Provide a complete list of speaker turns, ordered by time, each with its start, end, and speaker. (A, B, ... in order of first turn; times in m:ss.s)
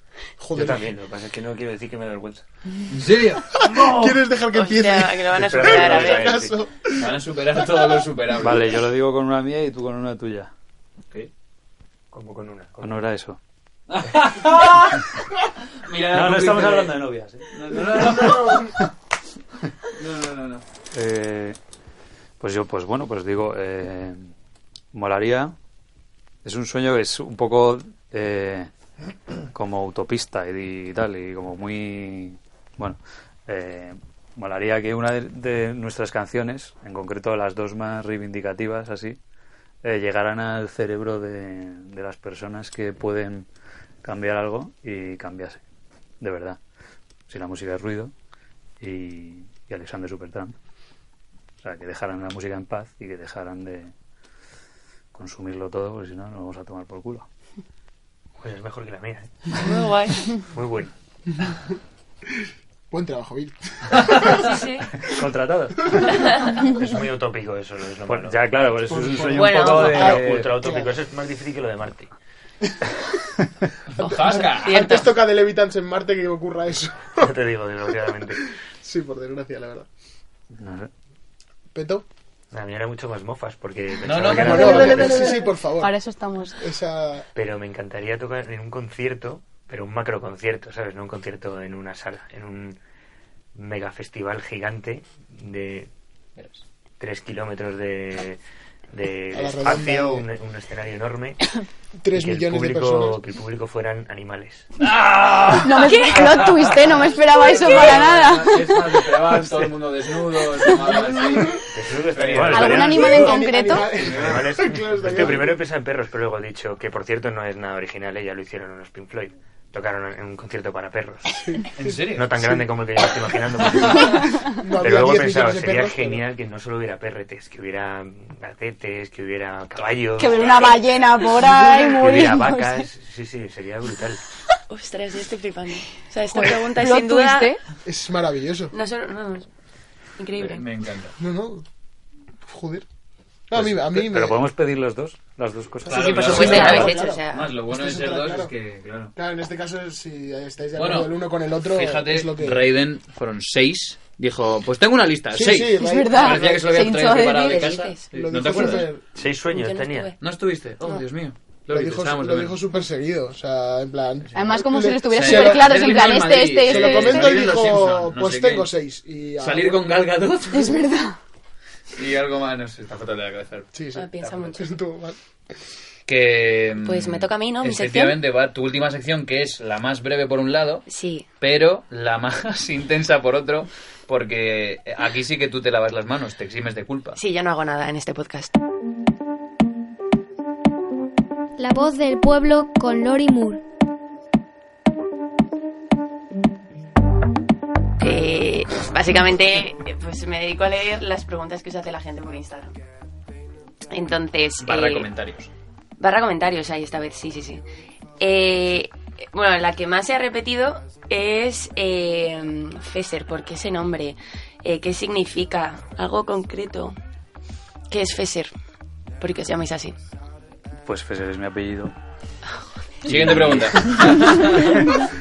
0:00.4-0:00.8 A
0:00.5-0:02.4 B
0:02.9-0:04.2 C
0:03.5-0:08.0 A
0:04.5-0:06.4 D
0:05.3-0:06.6 B
0:06.9-0:08.7 C
0:08.4-0:10.5 E
0:12.1-0:13.0 B
0:12.8-0:13.4 E
0:13.9-0:15.0 C
0:15.7-0:17.0 C
0:16.1-0:18.8 E
0:17.5-0:18.7 C
0:18.2-0:18.6 A
0:19.9-0:20.6 C
0:20.9-0:21.6 E
0:22.4-0:24.3 E
0:24.9-0:25.5 E
0:26.4-0:28.7 E
0:29.5-0:39.2 E
0:39.8-0:43.5 E
0:44.0-0:45.6 E
0:46.2-0:46.6 E
0:47.3-0:48.1 E
0:48.8-0:50.6 E
0:51.6-0:53.9 E
0:55.1-0:57.3 E
0:58.4-0:59.7 B
0:59.6-1:00.4 D
1:00.5-1:00.9 B
1:02.3-1:04.4 A
1:04.3-1:04.9 D
1:05.0-1:06.0 E
1:06.1-1:06.5 D
1:06.6-1:08.5 B
1:08.1-1:10.5 E
1:08.8-1:10.9 A
1:09.3-1:10.2 D
1:09.8-1:12.1 B
1:14.0-1:14.8 C
1:14.0-1:15.2 D
1:14.0-1:17.3 A
1:17.2-1:18.4 B
1:18.2-1:19.9 A
1:20.5-1:20.9 E
1:21.7-1:22.0 A
1:22.5-1:25.2 B
1:24.0-1:25.1 C
1:24.4-1:25.9 A
1:24.6-1:26.6 F
1:26.6-1:27.3 A
1:27.3-1:32.8 B
1:33.5-1:35.9 B
1:37.0-1:38.4 B
1:38.9-1:41.4 B
1:39.3-1:40.3 A
1:42.0-1:43.2 A
1:42.1-1:44.7 B
1:44.8-1:52.8 C
1:45.6-1:49.0 F
1:45.8-1:46.2 D
1:50.8-1:51.5 A
1:51.7-1:53.3 B
1:52.4-1:53.3 E
1:52.5-1:53.9 F
1:52.6-1:55.6 A
1:54.0-1:55.4 C
1:54.0-2:01.4 B
2:01.4-2:02.6 A
2:01.8-2:02.3 C
2:02.1-2:10.7 B
2:04.6-2:06.2 A
2:09.8-2:10.8 C
2:10.2-2:12.9 F
2:12.0-2:14.2 B
2:14.7-2:17.6 D
2:16.3-2:17.6 F
2:17.8-2:18.7 A
2:18.7-2:19.5 D
2:20.2-2:20.6 D
2:20.4-2:21.1 C
2:21.2-2:21.6 A
2:22.4-2:22.8 A
2:23.5-2:24.4 A
2:23.5-2:26.8 E
2:25.8-2:28.5 A
2:25.9-2:29.1 C
2:26.2-2:27.5 D
2:29.1-2:32.7 A
2:30.8-2:38.9 C
2:35.3-2:36.6 A
2:35.8-2:37.8 F
2:37.4-2:38.1 D
2:38.1-2:39.0 A
2:39.1-2:40.1 B
2:39.5-2:40.2 D
2:40.2-2:42.6 C
2:40.8-2:41.0 D
2:41.7-2:45.8 A
2:44.3-2:48.7 C
2:44.3-2:47.4 F
2:46.6-2:49.8 A
2:49.4-2:50.8 C
2:50.5-2:51.2 F
2:51.9-2:53.7 C
2:53.7-2:55.2 A
2:53.9-2:54.7 D
2:56.1-3:00.8 C
2:56.8-2:58.2 D
3:00.9-3:01.3 D
3:01.4-3:07.2 C
3:07.2-3:08.5 D
3:11.6-3:13.6 G
3:18.0-3:22.7 D
3:23.9-3:25.1 D
3:24.6-3:25.5 C
3:26.0-3:27.6 D
3:28.2-3:37.0 D
3:37.9-3:38.5 D
3:39.2-3:40.0 D
3:40.8-3:41.9 E
3:43.0-3:44.9 C
3:43.0-3:44.3 E